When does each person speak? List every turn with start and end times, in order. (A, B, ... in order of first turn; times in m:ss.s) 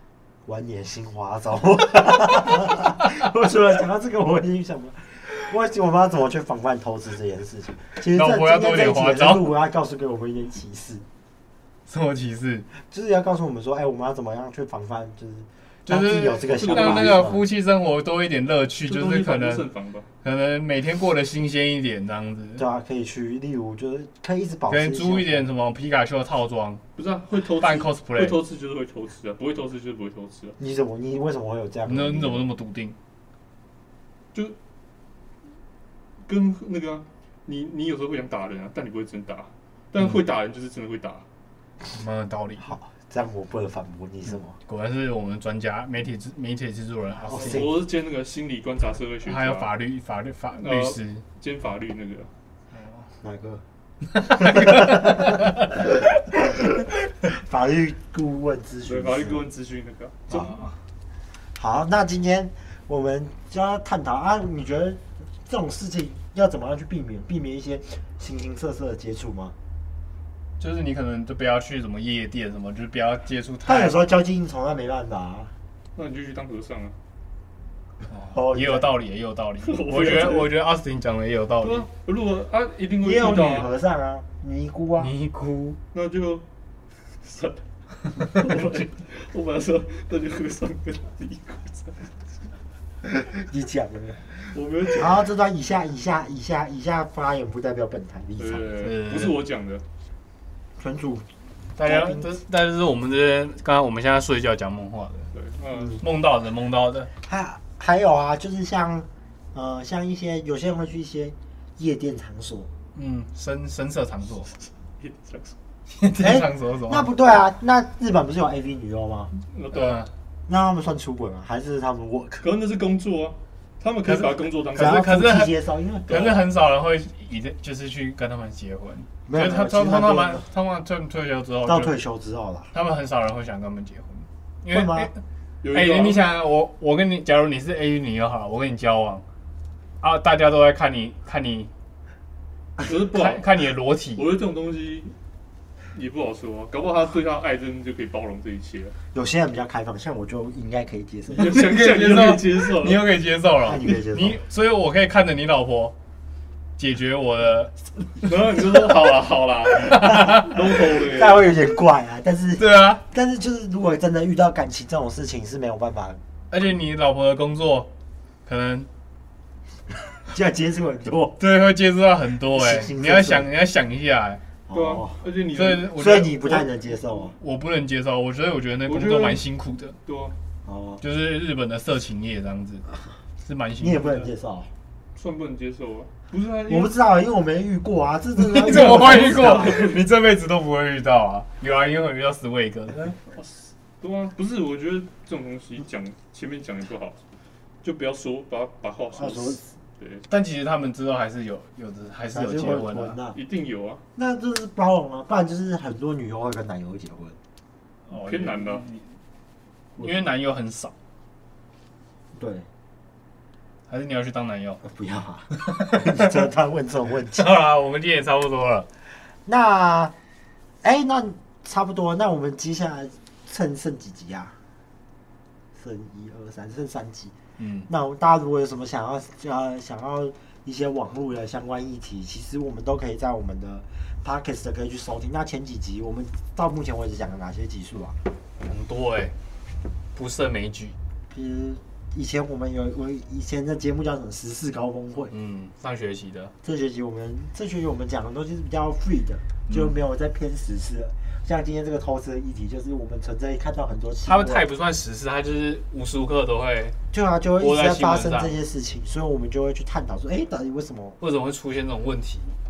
0:00.4-0:11.0 A
0:08.1-0:09.5 B
0:11.9-0:12.7 B
0:12.8-0:17.4 A
0:15.8-0:19.6 B
0:16.4-0:17.3 C
0:18.8-0:20.1 C
0:20.2-0:22.6 B
0:22.6-0:25.4 A
0:24.7-0:26.8 B
0:27.0-0:30.6 C
0:27.6-0:28.4 B
0:30.6-0:32.4 A
0:31.9-0:33.0 B
0:36.2-0:41.2 C
0:41.9-0:42.7 B
0:42.6-0:44.6 A
0:44.3-0:47.7 B
0:47.2-0:47.8 A
0:47.4-0:49.7 C
0:49.2-0:51.2 B
0:50.6-0:52.3 C
0:52.7-0:53.0 B
0:53.2-0:53.6 A
0:54.2-0:59.4 A
0:54.3-0:55.3 B
0:58.8-1:00.5 C
1:00.3-1:00.7 B
1:01.5-1:09.5 A
1:10.6-1:14.0 B
1:13.6-1:15.5 A
1:15.9-1:16.9 C
1:18.1-1:21.9 B
1:18.3-1:18.9 A
1:19.6-1:20.5 C
1:21.6-1:23.7 C
1:23.0-1:25.1 A
1:25.0-1:25.8 B
1:25.9-1:26.4 C
1:27.1-1:32.2 C
1:33.0-1:38.9 A
1:34.4-1:35.3 C
1:38.4-1:39.8 C
1:38.8-1:39.4 B
1:40.8-1:42.4 A
1:41.8-1:45.3 B
1:45.3-1:46.0 C
1:46.0-1:47.1 B
1:47.2-1:52.7 A
1:52.9-1:54.5 B
1:55.0-1:55.6 C
1:55.9-1:57.1 B
1:56.2-1:59.3 A
1:59.4-2:00.0 C
1:59.7-2:00.1 B
2:00.5-2:02.5 A
2:02.4-2:05.0 C
2:04.0-2:05.5 B
2:04.7-2:06.4 A
2:06.1-2:11.9 B
2:09.2-2:10.4 A
2:11.6-2:12.7 A
2:12.7-2:15.1 B
2:14.7-2:15.1 A
2:15.6-2:16.3 C
2:15.7-2:19.2 B
2:20.0-2:21.7 B
2:22.8-2:23.6 C
2:23.1-2:24.3 B
2:24.2-2:25.1 C
2:25.9-2:28.9 C
2:29.1-2:31.6 A
2:31.3-2:33.0 C
2:31.3-2:35.9 B
2:33.6-2:34.4 A
2:36.8-2:37.7 B
2:38.2-2:41.5 C
2:39.9-2:40.4 B
2:40.2-2:46.2 A
2:42.6-2:43.0 B
2:46.5-2:47.9 B
2:48.4-2:48.9 B
2:50.2-2:51.4 A
2:51.4-2:54.4 B
2:52.5-2:53.5 A
2:54.7-2:55.2 A
2:54.7-2:56.3 C
2:55.5-2:56.6 B
2:55.9-2:57.4 A
2:57.4-3:00.0 B
2:58.8-2:59.4 C
3:00.0-3:00.3 C
3:00.6-3:01.0 A
3:01.0-3:02.8 B
3:03.4-3:04.3 B
3:03.8-3:04.7 A
3:05.1-3:07.0 C
3:06.7-3:10.0 A
3:08.4-3:13.2 B
3:09.0-3:09.8 C
3:14.0-3:17.2 C
3:17.8-3:20.2 C
3:19.1-3:19.7 A
3:20.3-3:23.2 B
3:22.3-3:23.4 A
3:23.3-3:24.0 C
3:24.2-3:27.4 A
3:28.1-3:29.1 B
3:28.1-3:28.8 C
3:30.0-3:30.9 B
3:32.3-3:32.6 A
3:33.9-3:34.8 B
3:34.8-3:37.5 A
3:35.6-3:36.3 B
3:37.3-3:38.9 B
3:39.4-3:40.1 A
3:40.8-3:44.6 A
3:45.8-3:47.3 A
3:47.6-3:47.9 B
3:47.9-3:58.2 A
3:58.6-3:59.3 B
4:00.1-4:01.0 B
4:01.3-4:05.3 A
4:05.3-4:06.5 B
4:06.6-4:14.6 A
4:09.7-4:09.9 B
4:14.2-4:17.0 B
4:17.1-4:21.2 A
4:17.6-4:18.6 B
4:21.2-4:22.5 B